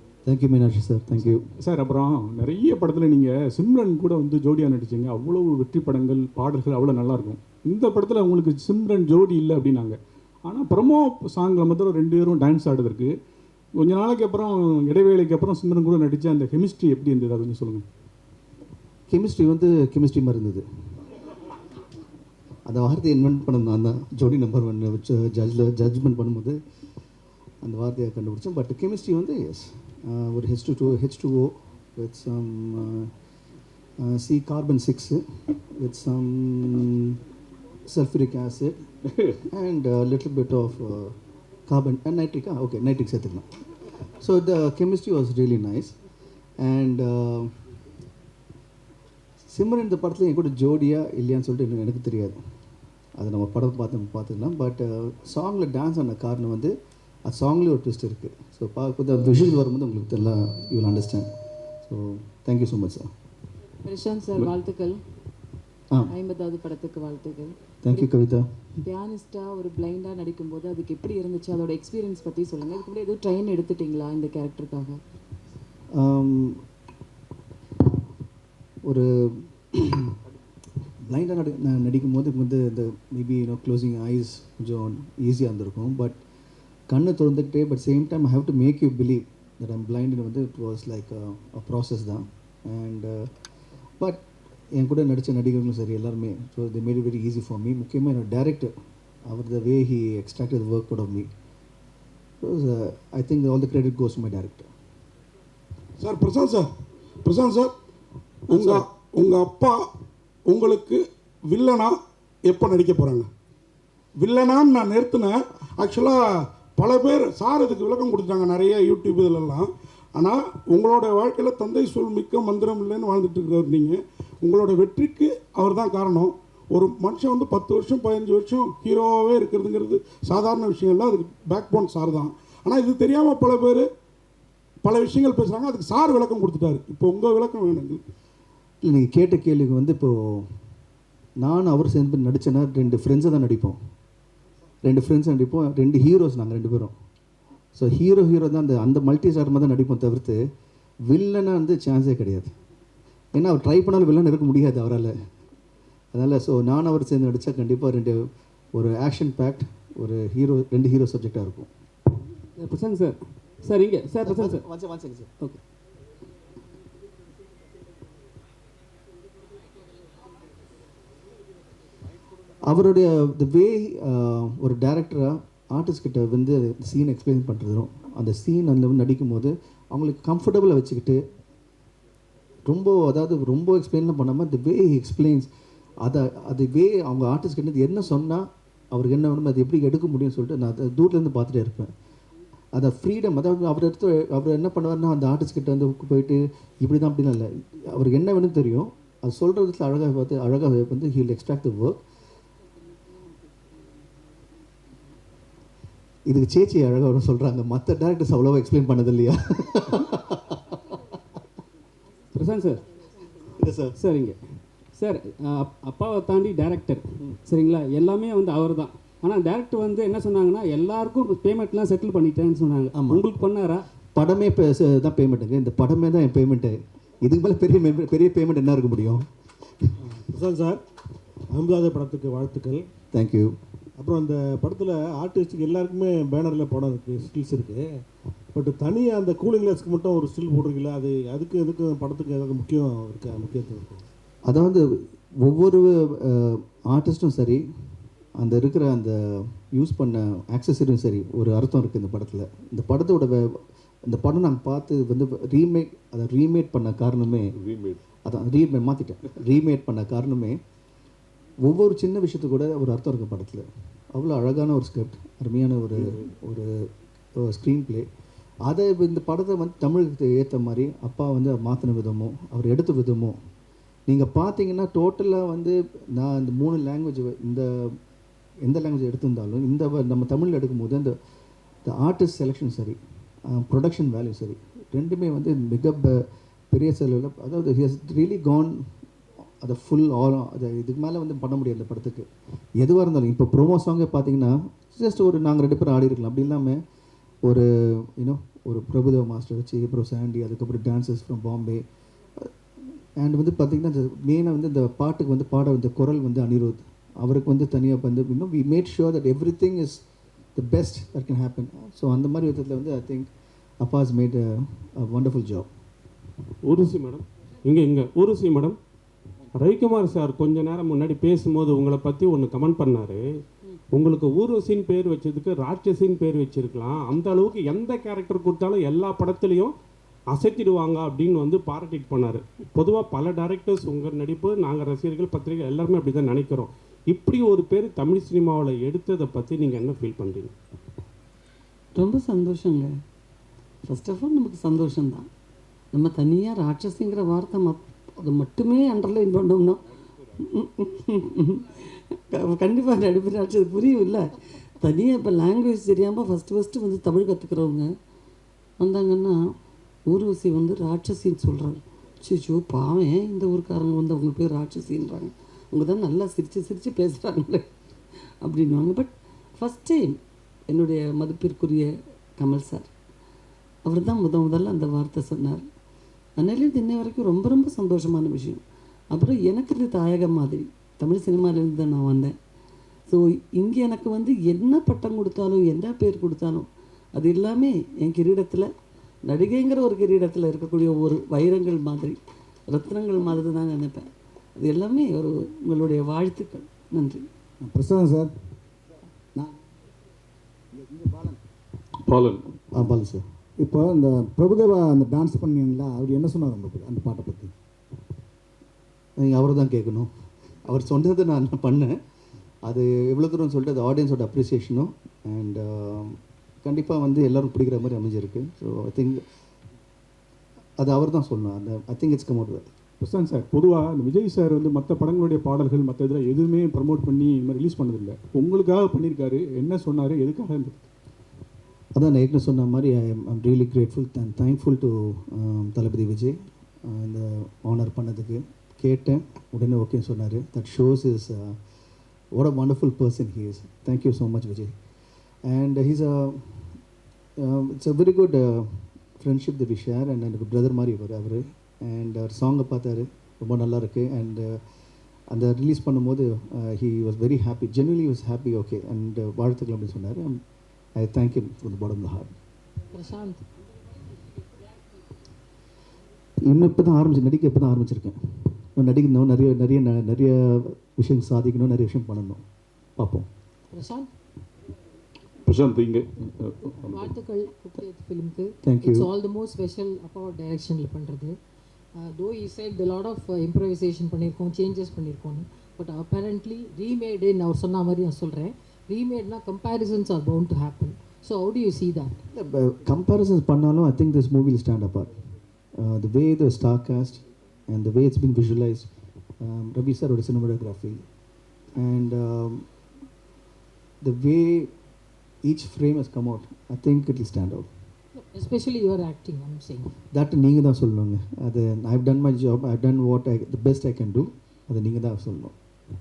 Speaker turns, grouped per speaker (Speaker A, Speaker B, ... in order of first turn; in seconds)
Speaker A: 0.2-1.4, 19.1-20.6, 22.7-26.6, 27.6-33.1, 34.0-37.2, 37.9-41.1, 41.7-43.4, 44.2-46.0, 46.6-47.5, 49.5-52.4, 53.2-56.7, 57.2-61.3, 61.8-63.1, 67.8-68.5, 76.0-76.6, 78.8-80.1, 81.0-86.2, 86.9-93.3, 94.0-98.7, 99.2-101.3, 102.4-104.7, 108.5-108.8, 138.8-140.5, 141.4-143.8, 144.8-146.9, 147.7-150.4, 151.1-152.5, 153.3-155.1, 156.1-161.7, 164.2-165.3, 172.6-181.2, 182.7-185.5, 186.0-191.9, 192.7-202.0, 206.3-210.8, 213.5-214.0, 222.9-223.3, 224.1-229.3, 233.1-233.6, 244.4-247.6, 248.4-257.6, 258.2-260.6, 261.6-266.8, 267.4-268.1, 268.6-273.4, 274.1-278.0, 278.6-281.1, 281.8-288.8, 289.6-292.3, 292.8-296.8, 297.4-301.8, 303.2-310.0, 310.6-313.3, 313.8-315.7, 402.7-403.2, 409.2-410.1, 410.6-412.0, 412.6-419.2, 420.8-422.7, 431.9-441.6, 442.3-444.8, 445.5-446.7, 447.4-454.6, 455.3-460.4, 461.0-462.3, 466.4-472.4, 473.0-473.3, 478.6-479.1, 492.3-495.1, 495.8-498.9, 499.4-501.0, 501.8-502.6, 504.0-504.7, 505.4-507.7, 510.1-515.5
Speaker B: 1.6-13.1, 13.8-17.9, 257.7-258.0, 402.1-402.4, 423.0-430.9, 475.5-477.1
Speaker C: 63.8-65.0, 66.1-68.1, 68.8-75.0
Speaker D: 106.0-106.7, 107.2-107.7, 108.5-109.9, 110.5-113.3, 114.2-133.9, 134.8-138.0
Speaker E: 162.6-164.6, 212.3-212.8, 214.0-214.4, 214.9-223.8
Speaker F: 230.2-230.8, 231.5-232.9, 234.0-238.0, 238.5-244.0
Speaker G: 316.7-318.8, 319.6-323.2, 323.9-329.7, 330.3-340.5
Speaker H: 342.0-342.9, 343.9-345.3, 345.9-349.8, 350.5-351.7, 352.3-354.3, 354.8-357.9, 358.8-359.4, 360.1-367.7, 368.4-370.1, 370.7-372.9, 373.9-375.6, 376.4-378.6, 379.1-382.3, 383.1-388.7, 389.3-392.2, 392.7-394.1, 394.6-397.2
Speaker I: 397.6-398.3, 400.8-401.4, 403.6-407.5
Speaker J: 462.9-463.4, 473.7-474.1, 476.9-481.4, 482.0-492.2, 508.2-509.9